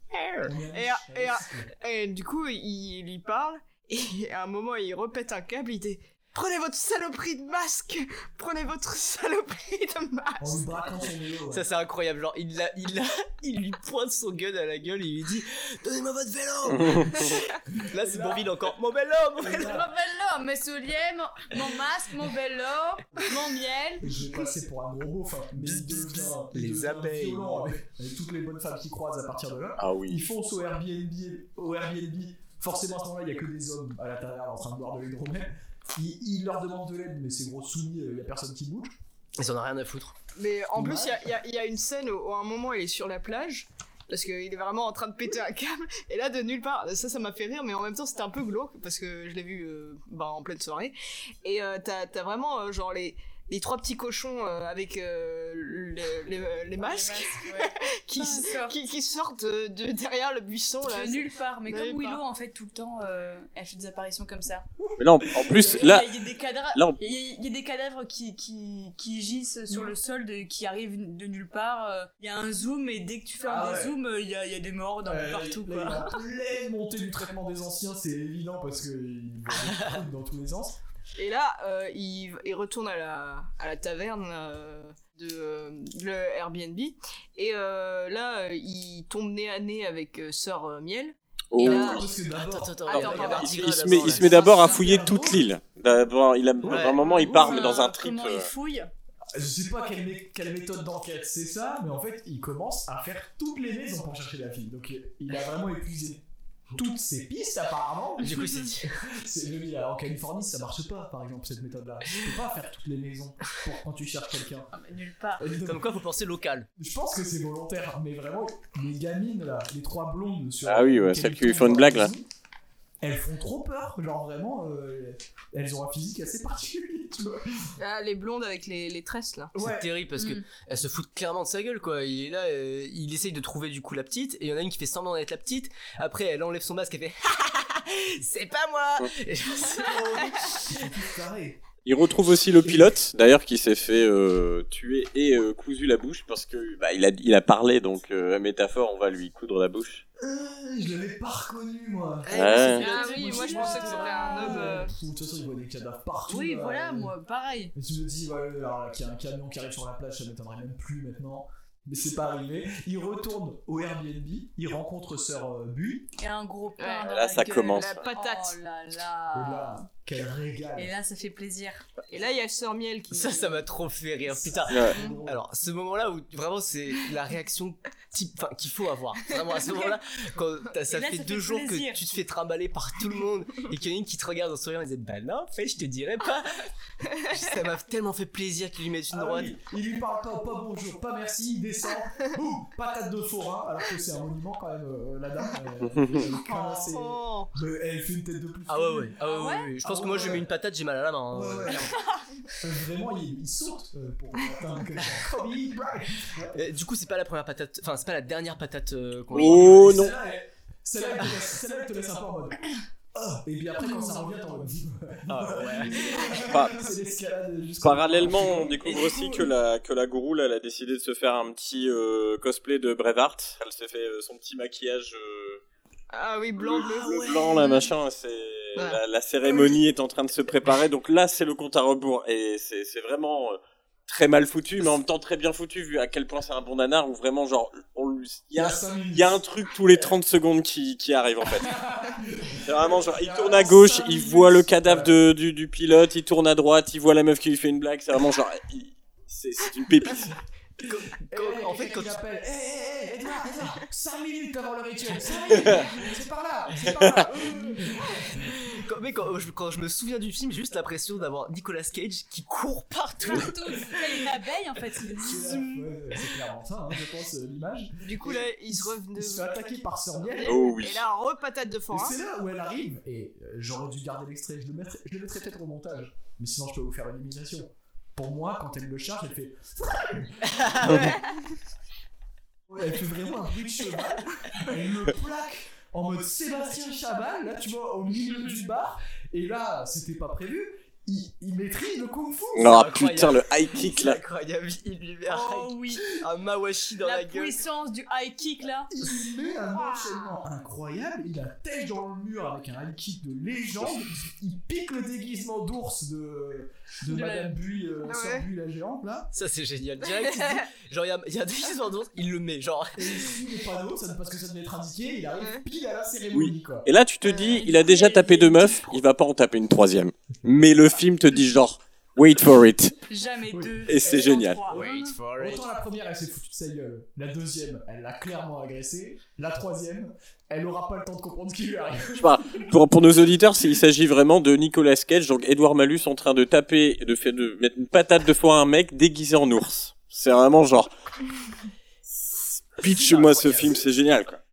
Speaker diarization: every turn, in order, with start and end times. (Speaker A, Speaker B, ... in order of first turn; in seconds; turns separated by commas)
Speaker A: 0.1-0.5, Speaker B: 0.4-1.7, Speaker C: 0.7-10.6, Speaker B: 10.4-11.7, Speaker A: 11.5-19.8, Speaker D: 16.7-17.1, Speaker B: 17.7-18.5, Speaker B: 19.4-19.9, Speaker E: 19.5-24.2, Speaker B: 24.0-39.0, Speaker A: 25.5-27.7, Speaker D: 29.8-30.2, Speaker A: 39.4-40.1, Speaker C: 40.4-62.2, Speaker B: 40.8-41.2, Speaker E: 56.8-58.8, Speaker E: 60.8-64.6, Speaker B: 64.8-65.9, Speaker D: 65.0-66.2, Speaker E: 65.4-76.2, Speaker B: 73.4-74.0, Speaker B: 75.0-80.8, Speaker A: 79.6-80.0, Speaker C: 81.2-92.1, Speaker D: 91.5-92.1, Speaker B: 91.6-93.4, Speaker A: 92.3-94.8, Speaker D: 92.9-98.5, Speaker E: 93.0-93.4, Speaker C: 93.0-93.4, Speaker B: 94.1-95.5, Speaker E: 94.2-95.0, Speaker B: 96.6-96.9, Speaker A: 96.6-97.1, Speaker E: 97.0-98.9, Speaker B: 99.3-106.2, Speaker B: 106.8-114.7, Speaker A: 108.2-108.9, Speaker E: 114.7-115.5, Speaker B: 115.4-115.9, Speaker A: 115.6-116.7, Speaker B: 116.8-122.3, Speaker D: 120.6-122.1, Speaker B: 123.0-127.7, Speaker C: 127.8-129.5, Speaker B: 129.5-129.9, Speaker A: 129.6-140.3, Speaker E: 130.2-130.4, Speaker B: 139.7-141.6, Speaker D: 141.8-150.0, Speaker B: 142.6-142.9, Speaker B: 150.2-157.1, Speaker C: 152.2-154.9, Speaker D: 152.3-152.8, Speaker E: 152.6-154.8, Speaker E: 156.3-157.7, Speaker B: 157.7-166.1, Speaker E: 166.2-169.8, Speaker C: 166.8-167.1, Speaker D: 167.1-167.9, Speaker C: 167.7-168.6, Speaker B: 169.3-170.9, Speaker E: 170.8-171.9, Speaker C: 172.1-173.6, Speaker A: 173.1-186.7, Speaker B: 174.4-175.4, Speaker C: 174.9-175.2, Speaker E: 180.9-182.0, Speaker A: 187.2-189.6, Speaker B: 189.1-199.2, Speaker C: 196.3-197.5, Speaker A: 198.7-202.0, Speaker E: 199.2-199.7, Speaker B: 199.8-200.5, Speaker B: 201.3-201.9, Speaker B: 202.5-206.6, Speaker A: 206.5-210.1, Speaker D: 209.3-210.1, Speaker B: 209.4-218.9, Speaker E: 213.9-214.2, Speaker A: 215.3-216.4, Speaker D: 216.4-216.9, Speaker D: 217.8-225.6, Speaker C: 218.9-219.4, Speaker C: 226.1-227.9, Speaker D: 226.6-250.3, Speaker C: 228.7-229.8, Speaker B: 238.5-239.4, Speaker B: 241.6-245.3, Speaker A: 250.8-252.2, Speaker B: 251.2-258.6, Speaker A: 258.3-264.2, Speaker E: 263.2-265.9, Speaker B: 265.2-270.6, Speaker C: 268.0-269.7, Speaker C: 270.3-272.1, Speaker D: 270.4-271.0, Speaker B: 271.9-281.1, Speaker A: 280.5-280.9, Speaker D: 280.8-281.2, Speaker B: 282.7-292.9, Speaker E: 288.2-288.6, Speaker D: 292.5-294.2, Speaker A: 292.6-297.6, Speaker E: 295.3-296.1, Speaker E: 297.0-298.9, Speaker B: 298.9-309.3, Speaker E: 307.1-307.6, Speaker C: 308.1-308.5, Speaker A: 309.3-313.3, Speaker C: 310.2-310.6, Speaker B: 312.9-316.9, Speaker C: 315.4-315.6, Speaker D: 316.3-323.0, Speaker C: 317.2-317.7, Speaker E: 317.4-319.0, Speaker E: 323.1-325.1, Speaker B: 323.5-332.7, Speaker D: 323.9-324.6, Speaker A: 324.7-325.6, Speaker D: 332.2-340.9, Speaker D: 342.3-344.4, Speaker A: 342.9-343.8, Speaker B: 343.1-343.5